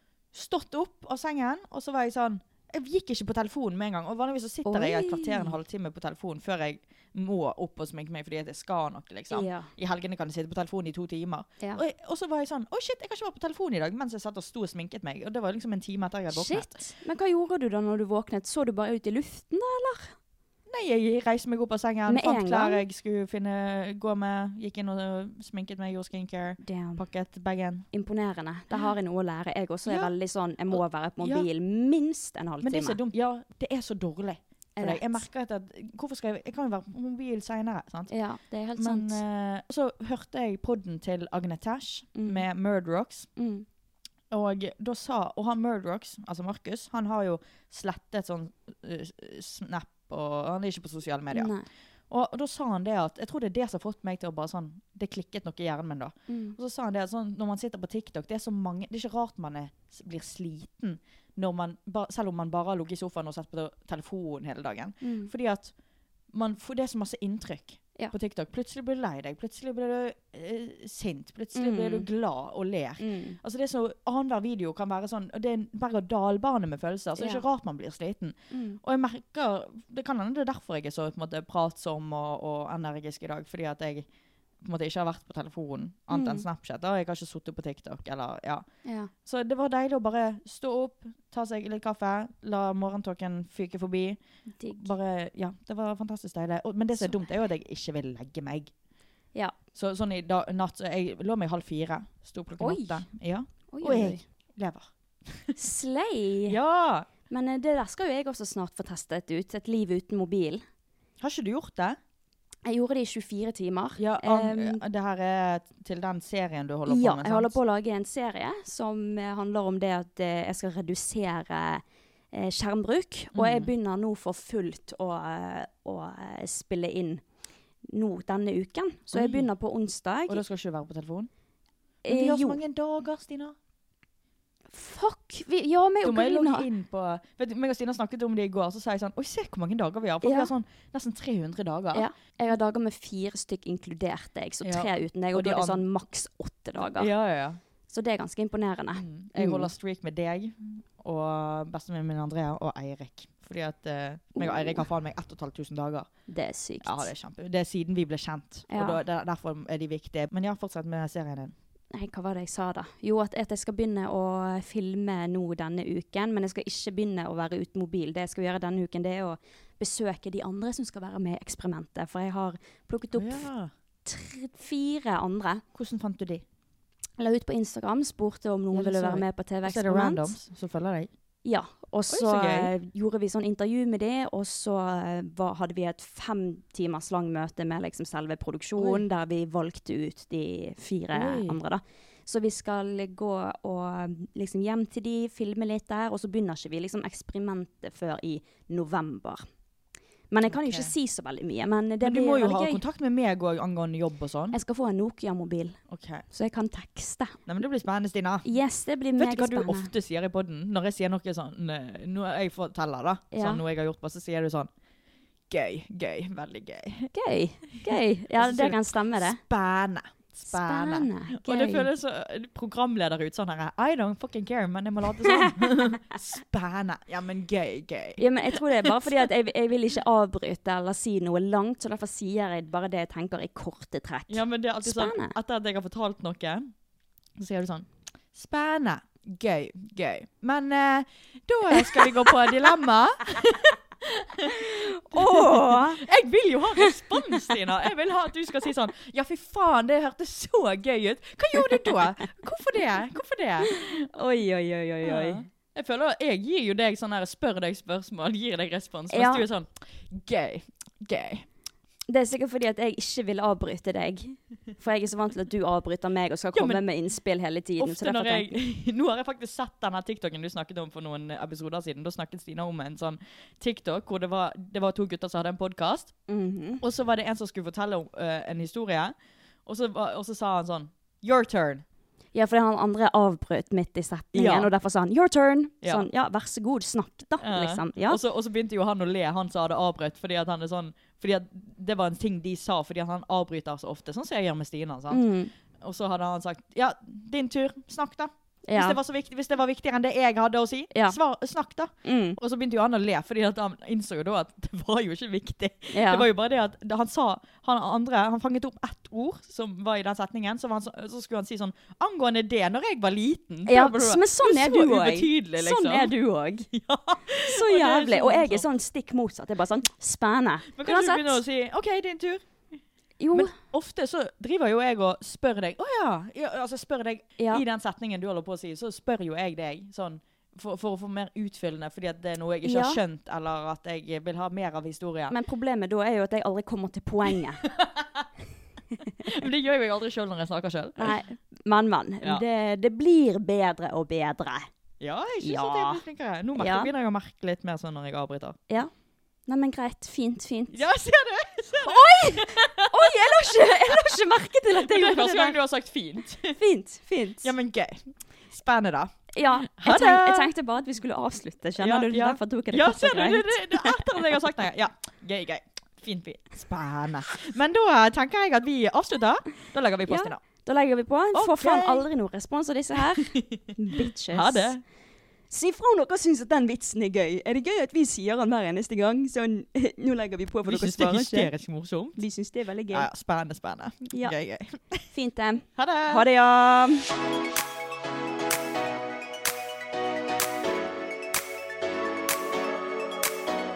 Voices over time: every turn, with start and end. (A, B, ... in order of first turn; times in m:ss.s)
0:00.3-0:16.7 A
0:04.6-0:05.5 B
0:09.3-0:09.7 B
0:16.3-0:20.1 B
0:20.7-0:27.8 A
0:22.1-0:22.8 B
0:26.6-0:27.0 B
0:27.9-0:33.0 B
0:29.8-0:30.1 A
0:30.7-0:31.5 A
0:32.6-0:38.1 A
0:34.8-0:35.2 B
0:38.1-0:39.2 B
0:38.8-0:43.3 A
0:42.2-0:42.4 B
0:43.4-0:43.6 B
0:44.3-0:51.5 A
0:51.3-0:51.6 B
0:52.1-1:05.7 A
0:56.3-0:56.6 B
1:05.0-1:05.3 B
1:06.3-1:24.0 A
1:11.6-1:12.1 B
1:13.0-1:13.4 B
1:17.2-1:17.4 B
1:18.5-1:18.8 B
1:24.6-1:28.6 A
1:26.1-1:26.4 B
1:28.8-1:29.1 B
1:29.2-1:38.7 A
1:34.6-1:34.9 B
1:39.7-1:45.6 A
1:42.6-1:43.0 B
1:43.7-1:44.2 B
1:45.6-1:46.6 B
1:46.4-1:47.1 A
1:47.3-1:50.6 B
1:51.2-1:52.0 A
1:52.6-1:54.8 B
1:54.0-1:57.6 A
1:56.9-2:01.8 B
2:02.3-2:07.2 B
2:03.3-2:03.7 A
2:07.9-2:10.4 B
2:09.1-2:09.5 A
2:10.3-2:11.3 A
2:12.0-2:13.6 A
2:12.0-2:12.6 B
2:14.7-2:16.7 B
2:16.0-2:22.1 A
2:20.2-2:20.5 B
2:21.9-2:27.1 B
2:24.6-2:25.8 A
2:26.8-2:27.6 A
2:27.9-2:29.7 B
2:28.9-2:36.1 A
2:34.4-2:34.8 B
2:36.3-2:37.1 B
2:36.8-2:41.5 A
2:38.7-2:39.0 B
2:41.9-2:53.4 B
2:53.1-2:53.7 A
2:54.0-2:55.6 B
2:55.7-2:56.4 A
2:57.2-3:00.3 B
2:58.7-3:01.1 A
3:01.4-3:19.4 B
3:02.1-3:02.7 A
3:08.8-3:09.0 A
3:11.1-3:11.6 A
3:20.3-3:22.8 B
3:20.4-3:20.9 A
3:22.0-3:24.6 A
3:24.5-3:25.8 B
3:25.9-3:26.2 A
3:26.3-3:27.4 B
3:27.5-3:28.5 A
3:28.4-3:29.9 B
3:29.2-3:34.7 A
3:33.3-3:33.6 B
3:35.5-3:37.1 A
3:37.1-3:39.4 B
3:37.8-3:49.2 A
3:40.5-3:41.9 B
3:45.3-3:45.5 B
3:48.2-3:55.3 B
3:54.3-3:56.7 A
3:57.4-4:13.9 A
4:04.5-4:06.0 B
4:13.7-4:15.4 B
4:15.0-4:21.4 A
4:19.1-4:19.4 B
4:22.1-4:28.6 B
4:26.5-4:26.8 A
4:27.8-4:36.1 A
4:36.3-4:36.8 B
4:36.8-4:39.1 A
4:39.6-4:41.8 A
4:42.3-4:48.2 B
4:44.3-4:44.7 A
4:45.8-4:46.1 A
4:47.4-4:55.2 A
4:55.1-4:55.5 B
4:55.8-5:16.1 A
4:58.7-4:59.0 B
5:02.0-5:02.4 B
5:05.9-5:06.3 B
5:13.7-5:16.7 B
5:16.7-5:18.7 A
5:17.4-5:21.4 B
5:20.7-5:22.5 A
5:23.2-5:23.5 B
5:23.3-5:35.4 A
5:32.6-5:33.0 B
5:35.3-5:37.7 B
5:37.6-5:38.2 A
5:39.2-5:41.2 A
5:41.0-5:44.7 B
5:45.0-5:48.6 A
5:45.4-5:46.0 B
5:46.6-5:46.9 B
5:49.5-5:50.8 B
5:50.7-5:56.6 A
5:51.8-5:55.6 B
5:56.5-5:57.5 B
5:57.4-6:00.5 A
5:59.3-6:04.2 B
6:01.8-6:10.4 A
6:10.1-6:14.7 B
6:11.3-6:12.1 A
6:12.9-6:13.6 A
6:14.3-6:14.8 A
6:15.5-6:21.5 B
6:20.6-6:22.2 A
6:22.2-6:23.1 B
6:22.9-6:25.0 A
6:25.1-6:27.1 B
6:25.8-6:26.2 A